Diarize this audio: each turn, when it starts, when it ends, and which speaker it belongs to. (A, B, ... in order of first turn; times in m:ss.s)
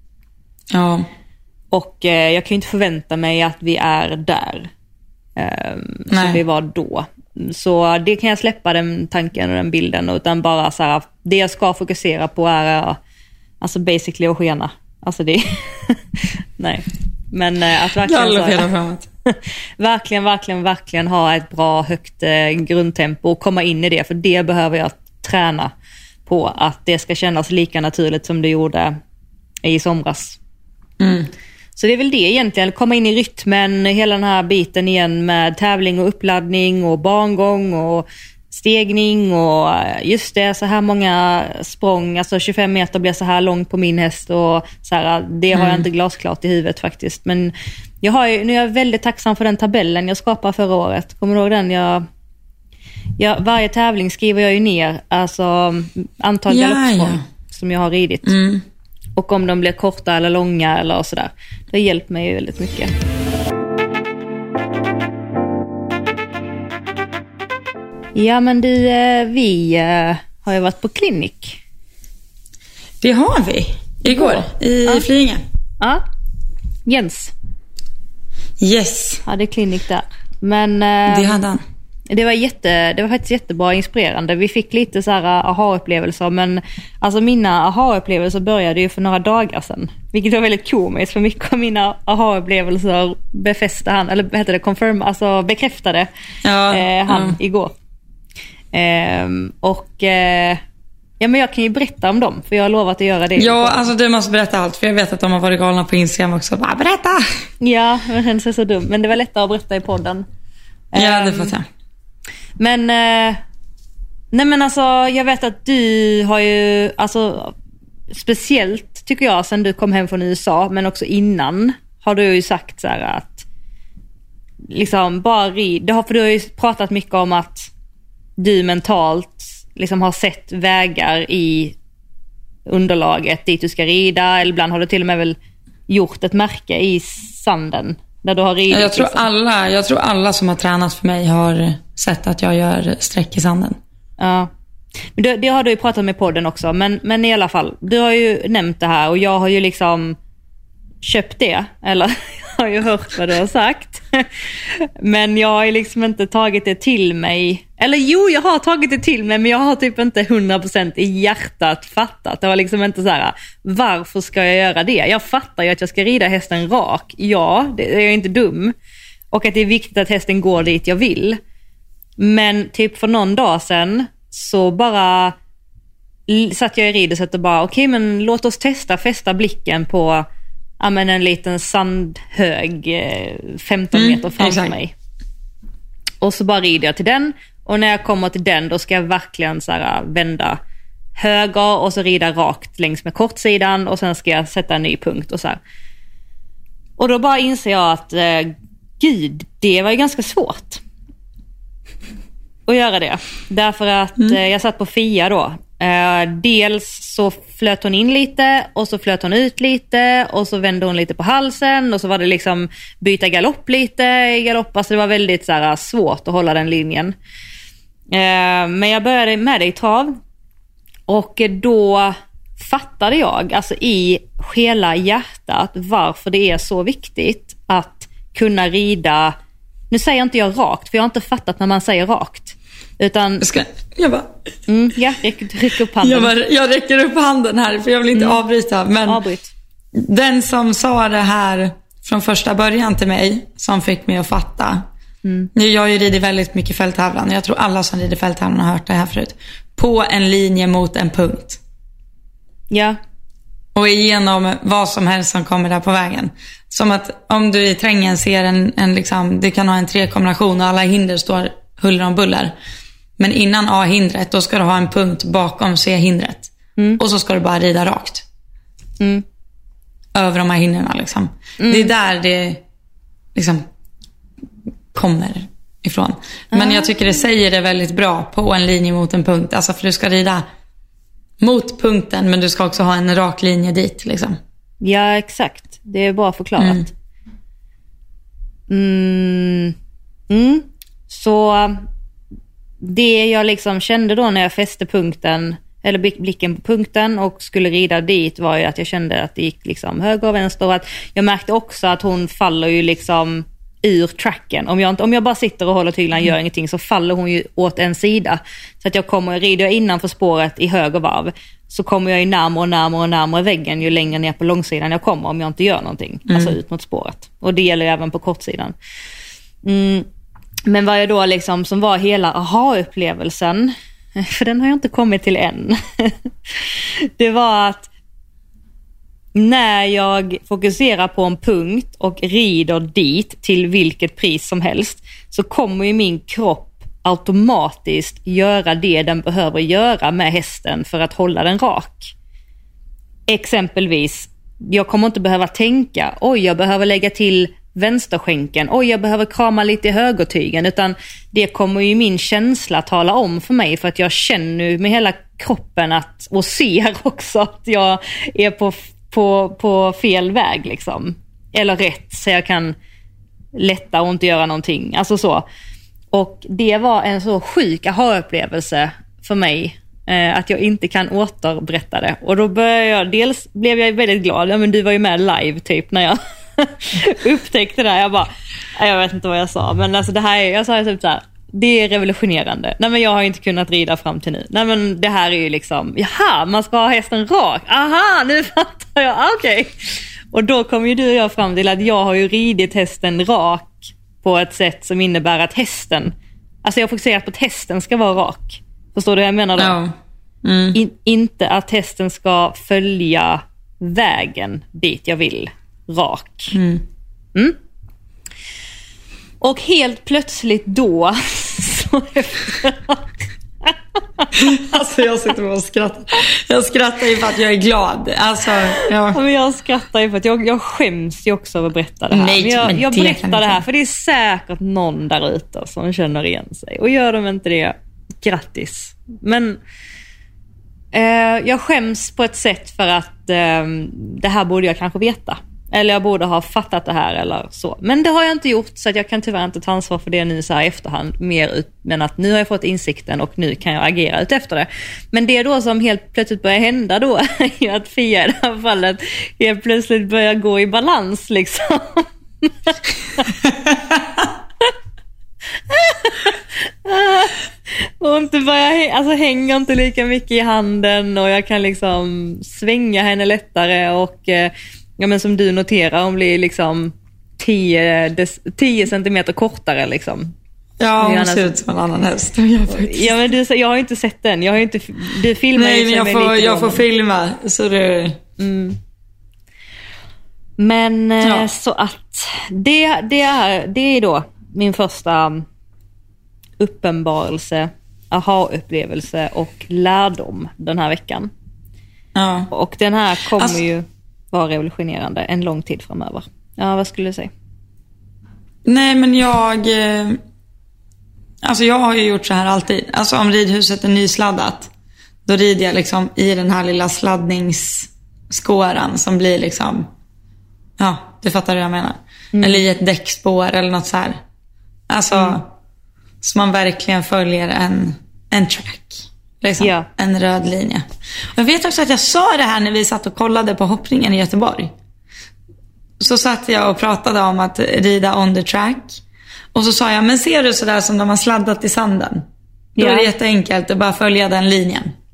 0:00.7-0:01.0 A
0:01.7-0:04.7 B
0:05.4-0:13.0 B
0:06.1-0:06.4 A
0:13.6-0:18.7 B
0:18.0-0:19.1 A
0:19.3-0:25.7 B
0:26.2-0:29.0 B
0:29.6-0:30.4 B
0:31.0-0:31.3 A
0:31.8-0:52.0 B
0:45.5-0:45.8 A
0:53.2-0:58.3 B
0:56.5-0:57.2 A
0:58.2-0:58.6 A
0:59.2-1:02.9 B
1:08.1-1:11.6 B
1:13.0-1:15.4 A
1:14.1-1:15.1 B
1:16.8-1:17.3 B
1:18.6-1:19.2 A
1:19.2-1:21.5 B
1:21.1-1:21.6 A
1:22.1-1:36.1 B
1:36.4-1:37.4 A
1:36.7-1:37.7 B
1:38.7-1:40.6 B
1:41.2-1:43.9 B
1:43.4-1:47.4 A
1:47.6-1:50.2 B
1:50.9-1:51.6 B
1:50.9-1:51.6 A
1:52.6-1:53.4 B
1:54.3-1:57.5 B
1:58.1-2:03.4 B
2:04.7-2:07.7 B
2:08.4-2:11.8 B
2:12.7-2:15.4 B
2:15.9-2:19.2 B
2:18.7-2:23.8 A
2:24.2-2:24.5 B
2:25.2-2:30.2 B
2:31.0-2:48.7 B
2:49.3-2:51.4 B
2:52.2-2:55.3 B
2:56.3-3:00.2 B
3:00.8-3:04.9 B
3:03.9-3:04.7 A
3:06.2-3:10.6 B
3:11.2-3:15.6 B
3:17.0-3:20.8 B
3:22.7-3:37.1 B
3:38.1-3:40.2 B
3:41.1-3:49.3 B
3:49.9-3:53.5 B
3:53.4-3:54.4 A
3:54.7-3:56.3 B
3:56.0-3:59.2 A
3:58.1-3:58.4 B
3:59.0-3:59.5 B
3:59.9-4:04.8 A
4:05.2-4:05.5 B
4:05.5-4:11.6 A
4:12.7-4:13.0 B
4:13.7-4:22.5 A
4:23.2-4:28.2 A
4:30.1-4:32.6 A
4:31.6-4:31.9 B
4:33.3-4:33.6 A
4:34.9-4:40.4 A
4:36.5-4:37.2 B
4:41.4-4:44.4 A
4:44.8-4:46.9 B
4:46.6-4:46.8 A
4:48.7-4:49.7 B
4:50.3-4:51.9 B
4:52.8-5:18.7 B
5:16.3-5:16.5 A
5:19.6-5:20.1 B
5:20.6-5:27.9 B
5:29.3-5:42.1 B
5:43.3-6:02.7 B
6:03.5-6:05.4 B
6:06.1-6:36.1 B
6:36.6-6:39.8 B
6:39.6-6:40.8 A
6:40.7-6:46.6 B
6:46.5-6:46.8 A
6:49.4-6:54.3 B
6:54.3-6:59.2 A
6:58.7-7:09.6 B
7:02.1-7:03.6 A
7:10.9-7:33.4 B
7:35.7-7:50.3 B
7:50.8-7:53.3 A
7:51.0-7:51.5 B
7:52.7-7:56.8 B
7:55.6-7:58.2 A
7:58.4-7:58.8 B
8:00.6-8:05.4 B
8:06.6-8:11.3 B
8:12.1-8:12.5 A
8:12.5-8:17.3 B
8:18.6-8:20.2 A
8:21.4-8:24.7 A
8:25.2-8:29.9 A
8:30.8-8:34.2 A
8:32.3-8:32.6 B
8:34.9-8:35.5 A
8:35.1-8:35.4 B
8:36.2-8:44.7 A
8:39.6-8:39.9 B
8:46.0-8:49.0 A
8:49.5-8:54.9 A
8:52.8-8:53.1 B